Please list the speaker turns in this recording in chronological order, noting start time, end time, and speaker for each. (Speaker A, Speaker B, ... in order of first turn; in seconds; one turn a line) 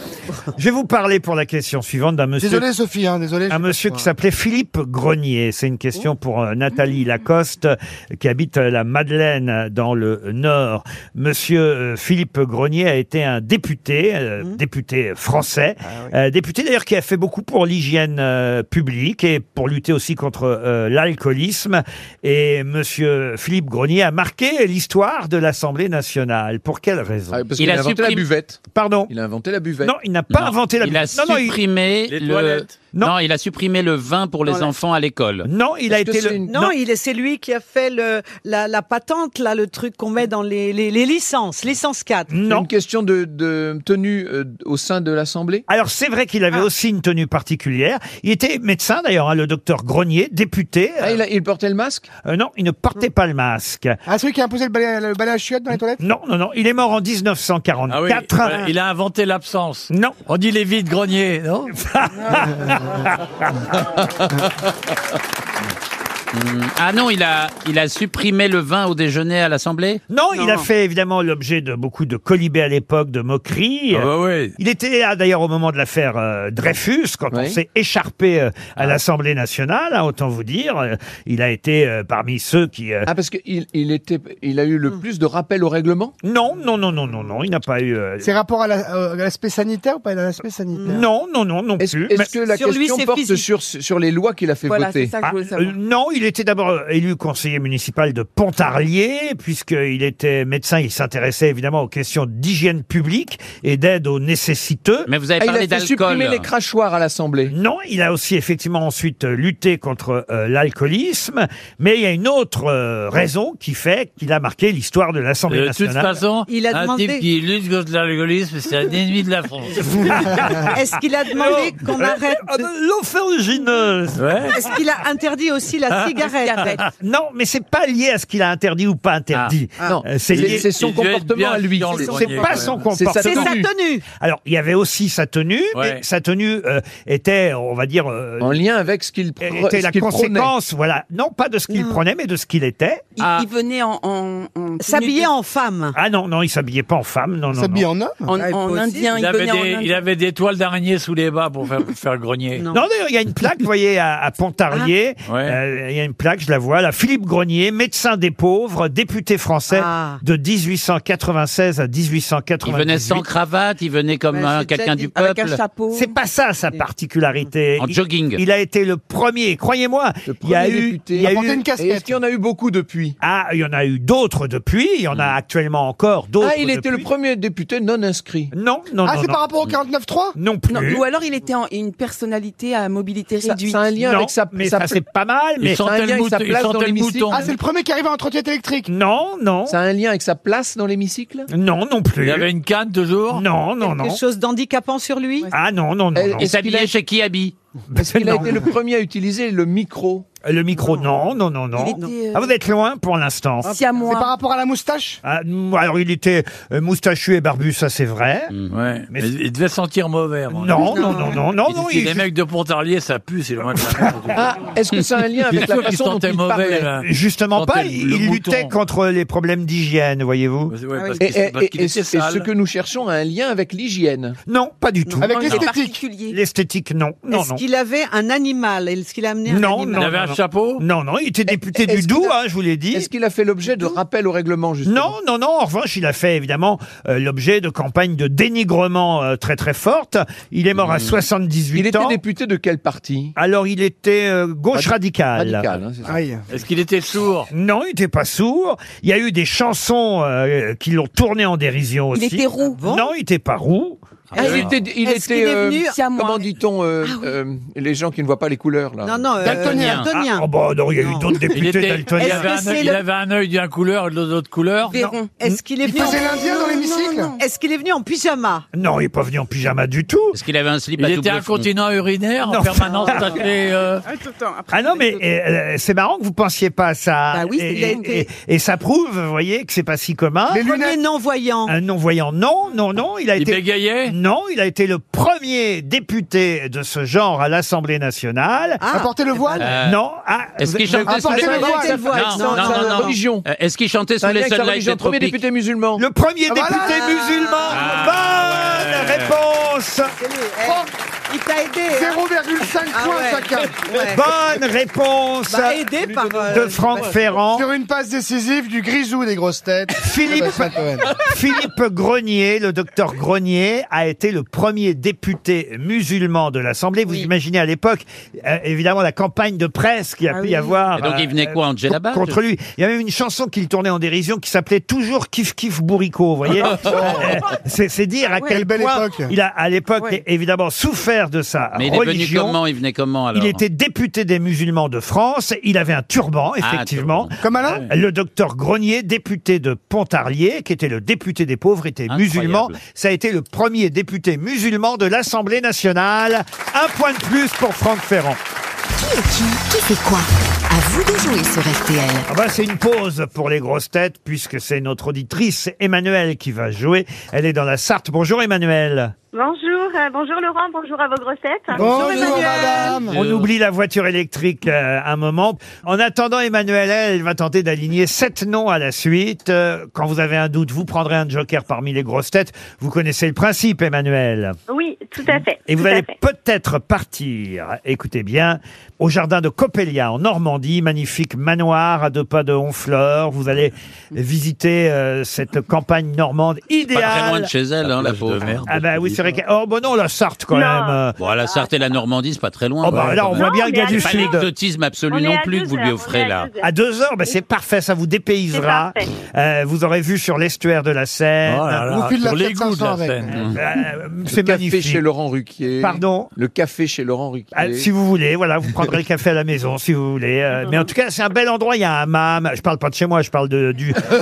Speaker A: 0.5-2.6
Speaker B: 2.4-4.1
Speaker A: 3.5-27.4
Speaker C: 27.3-29.9
Speaker D: 27.6-28.2
Speaker A: 28.7-29.1
Speaker A: 29.8-31.6
Speaker D: 30.3-35.5
Speaker E: 32.1-32.8
Speaker A: 35.4-36.7
Speaker C: 35.9-36.5
Speaker F: 36.5-42.3
Speaker A: 42.3-42.7
Speaker C: 42.4-45.6
Speaker A: 45.7-51.2
Speaker C: 51.0-52.1
Speaker A: 52.2-54.0
Speaker B: 54.0-56.0
Speaker A: 56.0-58.7
Speaker E: 57.9-61.7
Speaker A: 59.9-60.2
Speaker A: 61.7-63.6
Speaker D: 66.3-70.0
Speaker A: 70.1-83.1
Speaker F: 70.3-70.7
Speaker E: 73.9-74.5
Speaker C: 77.3-77.6
Speaker C: 83.0-86.1
Speaker A: 86.2-88.3
Speaker B: 88.2-91.0
Speaker A: 90.8-92.3
Speaker C: 91.8-95.1
Speaker F: 92.4-93.4
Speaker G: 94.7-95.7
Speaker A: 95.2-105.1
Speaker D: 105.1-106.5
Speaker C: 105.4-107.5
Speaker A: 107.5-116.2
Speaker E: 115.5-120.4
Speaker F: 116.5-117.2
Speaker A: 120.0-120.7
Speaker F: 120.7-122.7
Speaker A: 121.3-124.2
Speaker E: 124.2-124.5
Speaker F: 124.5-126.8
Speaker E: 125.9-126.9
Speaker G: 126.2-126.8
Speaker A: 127.0-130.7
Speaker C: 129.8-133.7
Speaker E: 130.3-132.9
Speaker F: 131.9-134.0
Speaker A: 132.1-133.6
Speaker A: 134.2-138.6
Speaker E: 135.7-136.0
Speaker C: 138.4-140.5
Speaker A: 139.4-143.1
Speaker F: 141.7-142.0
Speaker G: 143.2-145.3
Speaker F: 144.8-145.9
Speaker A: 145.9-147.8
Speaker B: 147.5-148.3
Speaker G: 148.2-149.9
Speaker F: 148.3-149.1
Speaker E: 149.1-152.6
Speaker F: 152.6-152.8
Speaker A: 152.7-163.2
Speaker E: 155.3-155.6
Speaker F: 159.7-160.2
Speaker D: 162.6-165.6
Speaker F: 164.3-165.3
Speaker G: 165.2-166.1
Speaker A: 165.9-171.6
Speaker D: 167.8-168.4
Speaker C: 170.2-173.2
Speaker B: 171.2-172.1
Speaker A: 173.2-177.1
Speaker C: 176.4-178.5
Speaker A: 178.5-179.4
Speaker B: 179.0-180.3
Speaker A: 180.3-181.0
Speaker G: 180.7-183.9
Speaker C: 183.4-185.0
Speaker A: 184.0-185.8
Speaker E: 185.6-187.5
Speaker C: 185.7-187.4
Speaker B: 187.3-188.9
Speaker A: 188.9-189.8
Speaker C: 189.7-191.5
Speaker A: 191.5-192.5
Speaker E: 192.2-193.4
Speaker A: 193.3-194.2
Speaker F: 193.8-195.5
Speaker A: 195.5-196.5
Speaker C: 196.2-196.9
Speaker D: 196.4-197.5
Speaker A: 197.9-198.7
Speaker C: 197.9-200.2
Speaker A: 200.4-203.7
Speaker F: 200.8-201.1
Speaker G: 201.8-202.5
Speaker F: 201.9-202.1
Speaker G: 203.6-204.3
Speaker B: 204.0-205.2
Speaker A: 205.2-208.5
Speaker E: 208.7-214.5
Speaker A: 210.5-212.2
Speaker F: 210.8-211.4
Speaker C: 214.3-216.9
Speaker E: 215.4-218.7
Speaker A: 217.0-220.7
Speaker E: 220.7-222.5
Speaker F: 220.9-221.2
Speaker C: 221.2-224.4
Speaker A: 224.4-225.7
Speaker B: 225.2-226.0
Speaker G: 225.3-226.4
Speaker A: 226.3-227.6
Speaker F: 227.3-230.0
Speaker A: 229.4-233.1
Speaker E: 229.9-230.8
Speaker C: 231.5-232.3
Speaker C: 232.9-235.1
Speaker A: 234.8-242.2
Speaker D: 240.8-241.2
Speaker C: 241.7-243.3
Speaker A: 243.3-245.7
Speaker C: 244.7-246.2
Speaker B: 246.1-246.4
Speaker E: 246.5-247.5
Speaker A: 247.5-254.0
Speaker G: 252.1-252.8
Speaker F: 252.7-253.1
Speaker F: 254.3-256.0
Speaker C: 254.4-259.4
Speaker G: 254.4-254.7
Speaker G: 255.8-256.5
Speaker F: 259.0-261.4
Speaker B: 259.4-260.1
Speaker A: 260.0-262.5
Speaker E: 261.5-265.0
Speaker F: 262.1-263.0
Speaker G: 264.9-265.3
Speaker A: 265.0-265.6
Speaker F: 265.0-266.7
Speaker B: 265.8-267.3
Speaker G: 266.3-267.4
Speaker F: 267.4-268.6
Speaker A: 268.7-270.4
Speaker D: 270.3-271.7
Speaker E: 271.0-274.0
Speaker A: 272.4-273.4
Speaker G: 274.3-275.0
Speaker A: 274.7-280.6
Speaker G: 277.3-278.3
Speaker B: 280.5-281.0
Speaker F: 280.6-281.7
Speaker A: 281.7-288.8
Speaker E: 283.4-284.1
Speaker F: 288.8-289.7
Speaker B: 288.9-289.7
Speaker D: 289.6-290.0
Speaker A: 289.8-291.5
Speaker D: 290.6-295.4
Speaker B: 291.0-292.6
Speaker F: 291.3-293.2
Speaker C: 292.4-293.4
Speaker C: 294.2-296.0
Speaker A: 296.0-300.1
Speaker B: 296.5-297.2
Speaker F: 296.8-297.8
Speaker D: 297.7-299.4
Speaker F: 300.2-302.2
Speaker B: 301.9-303.8
Speaker F: 302.9-304.2
Speaker A: 304.0-305.8
Speaker F: 305.5-307.4
Speaker C: 306.0-306.8
Speaker A: 306.5-307.7
Speaker E: 306.5-307.0
Speaker B: 307.5-311.1
Speaker A: 310.0-332.6
Speaker G: 320.3-320.7
Speaker D: 320.9-322.4
Speaker B: 328.4-329.3
Speaker D: 331.8-333.6
Speaker A: 333.3-348.4
Speaker D: 336.6-337.3
Speaker B: 337.4-337.8
Speaker D: 342.1-342.8
Speaker H: 349.0-352.3
Speaker A: 352.3-359.1
Speaker I: 359.3-362.8
Speaker B: 361.7-363.2
Speaker F: 361.8-363.0
Speaker G: 361.9-362.9
Speaker A: 363.1-374.6
Speaker I: 374.7-376.1
Speaker A: 375.6-387.5
Speaker D: 386.9-388.8
Speaker E: 387.8-389.3
Speaker A: 388.7-391.1
Speaker I: 390.5-391.7
Speaker D: 391.2-396.5
Speaker A: 392.8-394.5
Speaker E: 392.9-393.4
Speaker I: 393.4-394.4
Speaker I: 395.1-396.7
Speaker A: 396.6-401.9
Speaker I: 398.5-399.1
Speaker E: 401.5-403.4
Speaker B: 401.9-403.4
Speaker D: 403.3-403.6
Speaker A: 403.5-405.0
Speaker C: 404.3-407.9
Speaker A: 405.8-406.3
Speaker A: 407.5-414.1